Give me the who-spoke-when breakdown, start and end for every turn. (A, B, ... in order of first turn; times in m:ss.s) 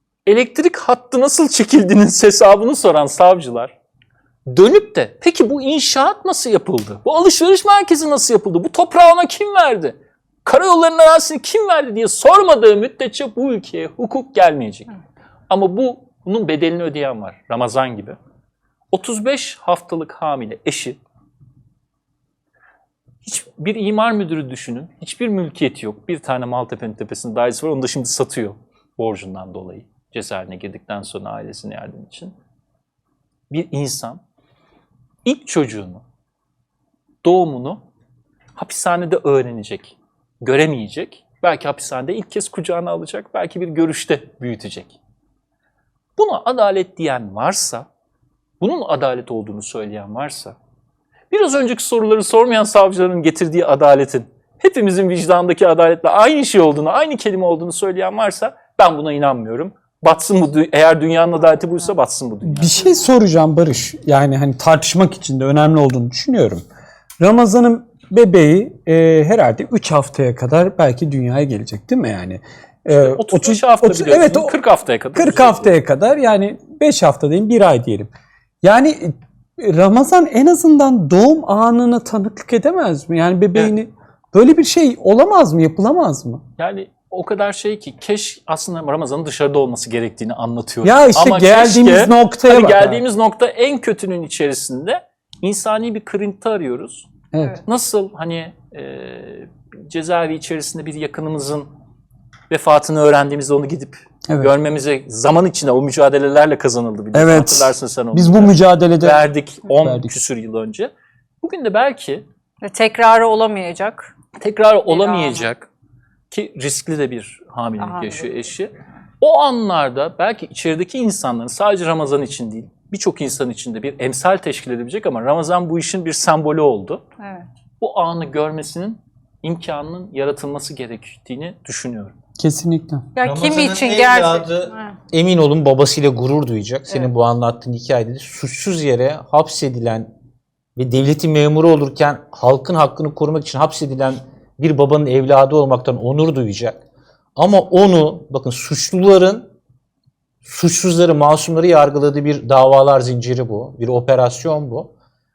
0:00.2-0:03.7 A
0:04.5-0:14.9 A
0:15.5-0:18.2 A
0:18.9-0:21.0 A
0:23.2-0:32.4 A
0:33.5-0:34.2 A
0:35.2-0:36.0 A
0:37.2-0:37.8 A
0:38.6-0:45.0 A
0:46.2-0:47.9 A
0:48.6-0:50.6 A
0:51.3-1:02.9 A
1:01.6-1:01.8 B
1:02.4-1:06.6 C
1:07.2-1:14.6 C
1:12.9-1:15.7 A
1:15.1-1:26.4 C
1:26.6-1:37.1 A
1:30.8-1:33.0 C
1:37.3-1:37.6 C
1:37.6-1:41.7 A
1:42.5-1:52.2 A
1:47.1-1:49.2 C
1:49.7-1:50.2 C
1:52.6-1:54.1 B
1:54.4-1:55.7 A
1:54.9-1:55.5 B
1:56.3-2:07.0 A
1:57.8-1:58.3 B
2:07.2-2:07.4 B
2:07.8-2:12.1 A
2:12.4-2:13.0 C
2:13.2-2:15.0 B
2:13.2-2:20.1 D
2:20.8-2:26.8 D
2:27.4-2:29.5 D
2:30.4-2:34.9 D